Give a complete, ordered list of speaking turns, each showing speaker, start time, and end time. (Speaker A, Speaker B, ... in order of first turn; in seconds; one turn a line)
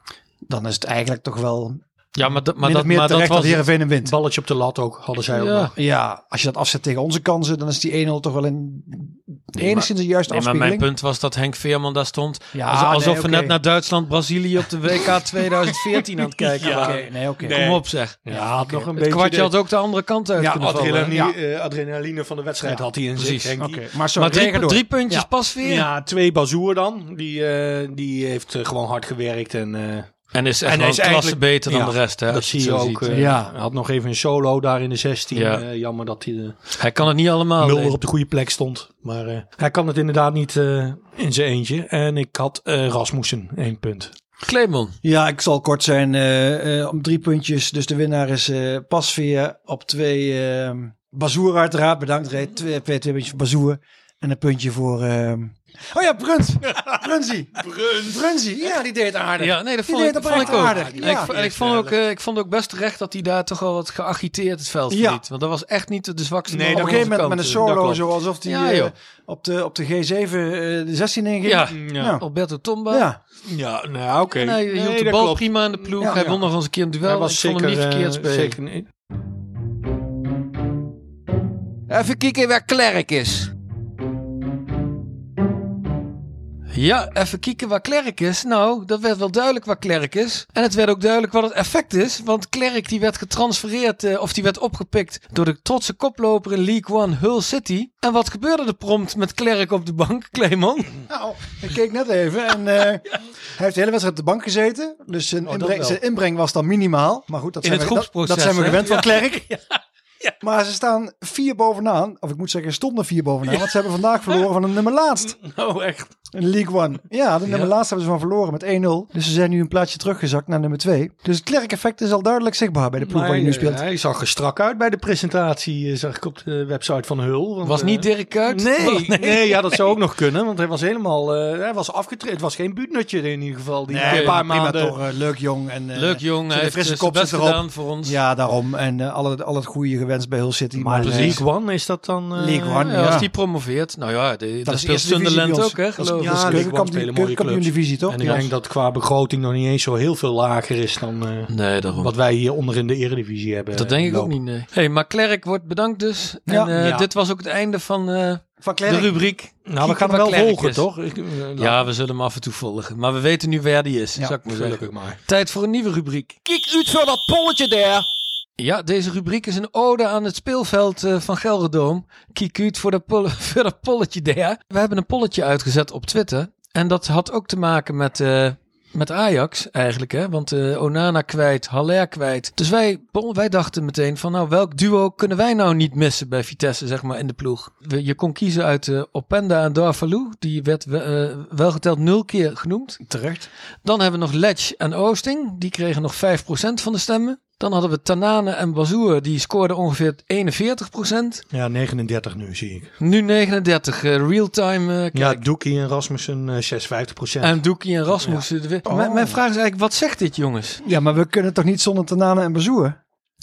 Speaker A: 0.5-4.1
Speaker B: 2.1-3.6
Speaker C: 4.0-5.7
Speaker B: 5.3-5.7
Speaker A: 5.8-10.9
Speaker B: 9.6-21.2
Speaker A: 12.5-13.6
Speaker C: 15.9-19.5
Speaker A: 16.6-17.6
Speaker A: 18.3-18.9
Speaker A: 20.4-21.4
Speaker C: 20.6-23.8
Speaker B: 23.2-23.5
Speaker A: 23.6-25.3
Speaker B: 24.2-25.9
Speaker C: 25.6-36.8
Speaker B: 30.3-33.2
Speaker A: 33.1-33.5
Speaker B: 35.3-35.6
Speaker B: 36.8-38.0
Speaker C: 37.6-44.1
Speaker B: 44.5-45.0
Speaker A: 45.0-61.3
Speaker C: 57.6-58.1
Speaker B: 59.4-67.7
Speaker C: 60.3-62.0
Speaker A: 64.9-65.2
Speaker C: 66.5-68.0
Speaker A: 66.7-72.2
Speaker B: 68.5-68.9
Speaker B: 71.5-73.1
Speaker C: 71.7-72.2
Speaker A: 72.9-73.2
Speaker C: 73.5-76.3
Speaker B: 74.3-78.6
Speaker A: 76.0-76.4
Speaker C: 77.0-78.9
Speaker D: 81.9-83.5
Speaker B: 86.7-101.0
Speaker A: 101.1-109.5
Speaker C: 105.5-106.0
Speaker B: 107.6-109.2
Speaker A: 110.4-115.4
Speaker C: 115.3-116.1
Speaker A: 116.3-123.8
Speaker C: 123.0-135.0
Speaker B: 127.6-129.8
Speaker A: 133.9-141.5
Speaker B: 134.1-134.4
Speaker B: 135.9-138.2
Speaker C: 140.8-142.9
Speaker B: 141.0-141.4
Speaker A: 142.3-143.3
Speaker B: 142.8-146.6
Speaker A: 144.7-148.5
Speaker C: 146.0-154.3
Speaker B: 148.2-148.5
Speaker B: 151.5-152.1
Speaker B: 153.8-160.8
Speaker A: 156.5-156.7
Speaker C: 156.8-157.1
Speaker A: 158.6-159.2
Speaker C: 159.7-161.8
Speaker B: 161.6-166.4
Speaker C: 164.5-165.2
Speaker D: 166.5-168.1
Speaker B: 168.6-193.0
Speaker A: 193.0-193.5
Speaker B: 193.8-201.4
Speaker C: 201.5-202.9
Speaker B: 203.0-205.4
Speaker C: 205.1-207.6
Speaker B: 207.4-210.8
Speaker C: 208.2-208.4
Speaker A: 208.9-209.4
Speaker A: 210.8-213.0